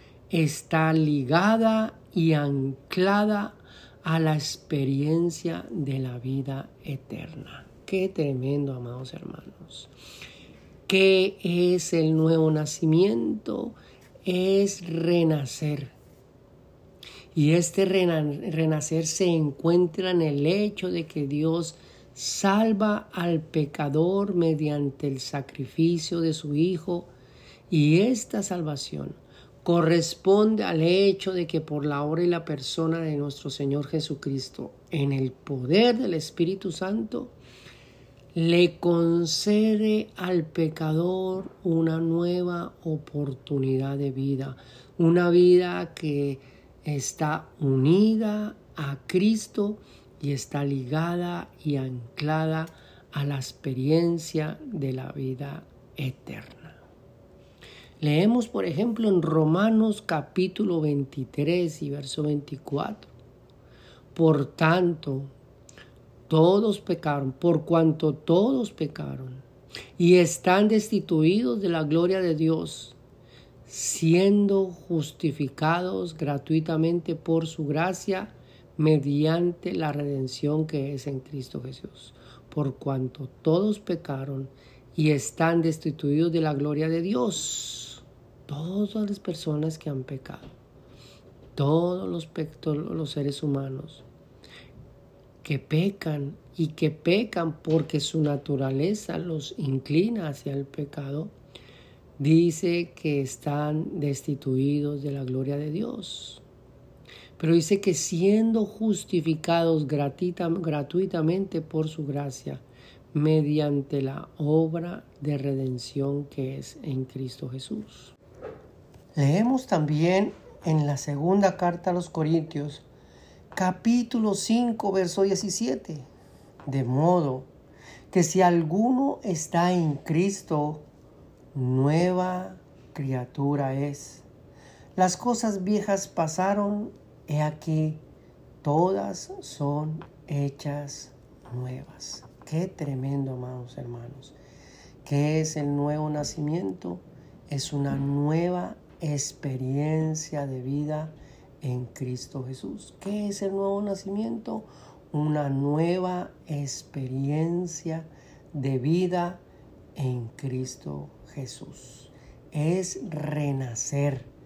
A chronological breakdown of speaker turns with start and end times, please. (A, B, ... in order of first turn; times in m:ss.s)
0:00.3-0:09.9 A
0:10.9-0:16.0 A
0:17.3-0:27.1 A
0:27.7-0:37.4 A
0:38.3-0:56.8 A
0:58.0-1:03.1 A
1:04.1-1:05.3 A
1:06.3-1:09.4 A
1:10.0-1:13.0 A
1:13.7-1:30.5 A
1:31.6-1:34.0 A
1:35.4-1:41.4 A
1:42.2-1:46.4 A
1:47.4-1:58.2 A
1:59.2-2:02.8 A
2:03.5-2:06.1 A
2:06.7-2:07.5 A
2:08.1-2:10.9 A
2:11.5-2:14.2 A
2:15.0-2:18.0 A
2:18.6-2:24.4 A
2:25.0-2:39.4 A
2:40.0-2:44.3 A